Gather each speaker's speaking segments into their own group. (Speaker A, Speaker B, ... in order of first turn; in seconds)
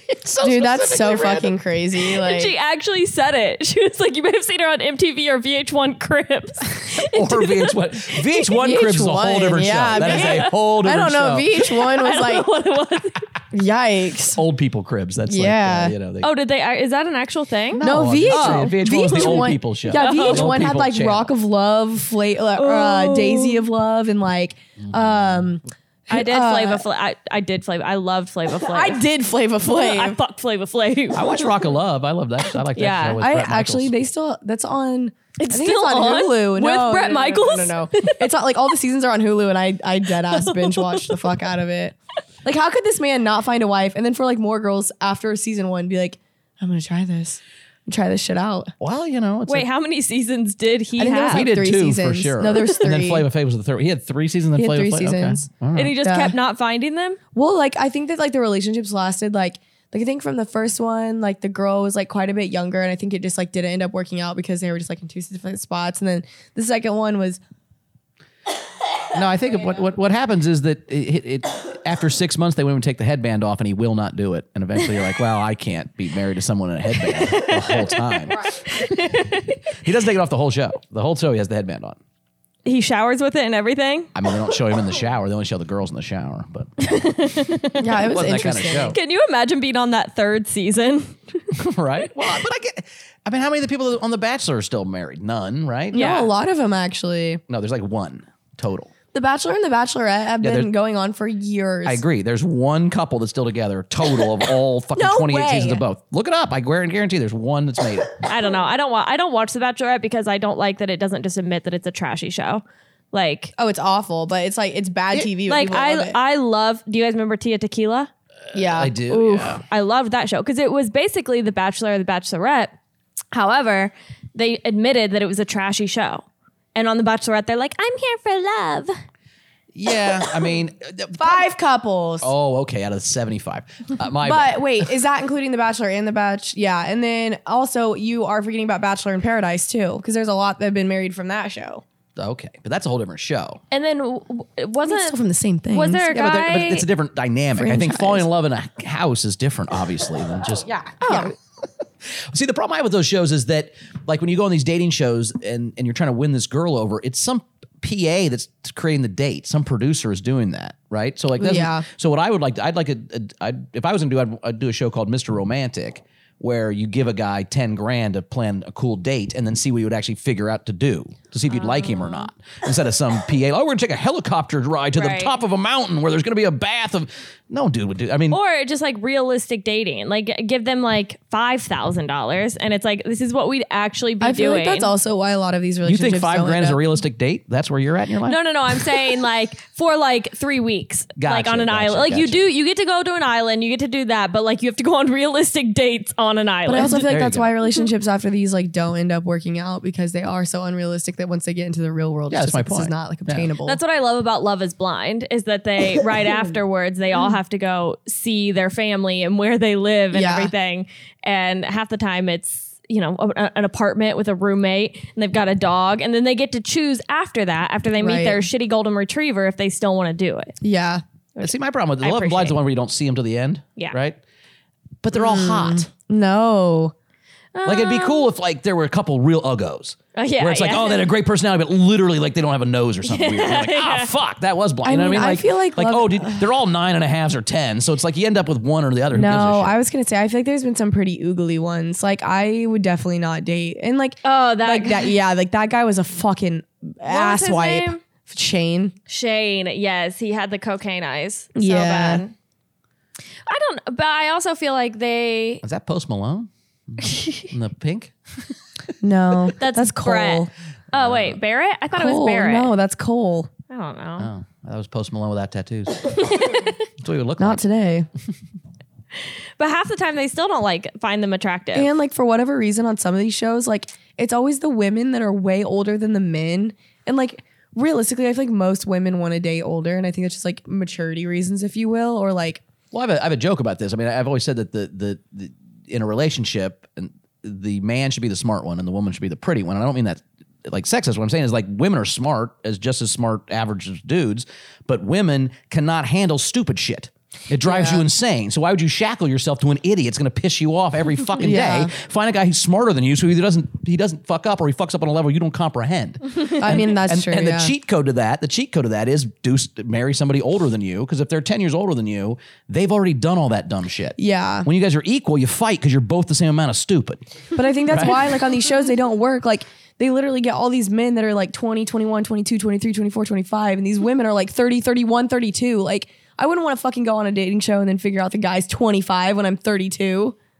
Speaker A: 0.1-1.6, 7.0-11.6, 14.3-16.3, 17.7-21.3, 24.9-25.4, 31.1-33.9, 48.8-49.7, 51.3-56.0, 69.1-78.4, 79.8-82.0, 84.1-86.7, 88.1-89.0, 91.5-96.1, 97.5-98.9, 100.4-100.7, 101.8-108.1, 118.5-119.6, 129.7-131.5, 132.2-134.6, 142.2-143.6, 146.1-151.3, 152.0-178.4, 185.8-188.4, 191.2-192.4, 196.9-197.5, 202.3-203.5, 221.4-224.2, 225.0-225.9, 227.6-239.8, 255.6-258.1, 260.9-261.4, 264.2-266.4, 267.0-267.6, 282.9-317.2, 317.9-318.4
Speaker B: 0.4-2.5, 8.5-12.5, 13.5-14.4, 15.3-15.9, 17.8-26.8, 28.6-30.2, 33.2-48.7, 51.0-53.2, 54.5-55.5, 56.0-56.4, 57.3-67.4, 87.8-89.0, 95.9-97.4, 99.1-102.0, 105.0-105.8, 113.6-116.2, 118.5-119.0, 131.2-132.3, 134.2-141.8, 144.8-146.1, 147.5-148.3, 150.7-151.3, 161.4-161.9, 184.2-186.8, 196.7-203.8, 210.1-210.5, 218.0-218.4, 220.6-221.0, 225.1-226.9, 234.8-236.5, 239.1-248.9, 251.5-252.2, 259.0-260.5, 261.9-263.5, 267.4-268.1, 271.7-282.6, 297.6-298.0, 301.4-301.9, 306.5-307.7, 314.2-314.7, 317.5-330.4
Speaker C: 2.2-8.2, 9.9-10.5, 11.6-13.2, 16.2-20.5, 22.6-23.7, 26.1-29.0, 29.7-31.3, 32.8-33.2, 35.4-38.3, 40.3-41.2, 49.5-51.5, 55.8-57.2, 77.1-79.6, 82.6-84.1, 86.8-88.0, 88.9-91.5, 95.9-96.3, 108.2-113.5, 115.5-118.1, 119.1-122.8, 123.3-128.9, 143.7-145.2, 145.7-146.9, 171.5-172.3, 174.9-175.4, 178.3-184.9, 188.2-197.0, 203.6-220.6, 221.4-222.6, 227.5-228.3, 230.1-231.0, 233.0-234.1, 244.2-245.1, 247.1-248.0, 249.1-252.3, 253.5-255.6, 257.1-257.5, 259.6-262.7, 263.7-264.3, 266.1-266.7, 269.6-271.9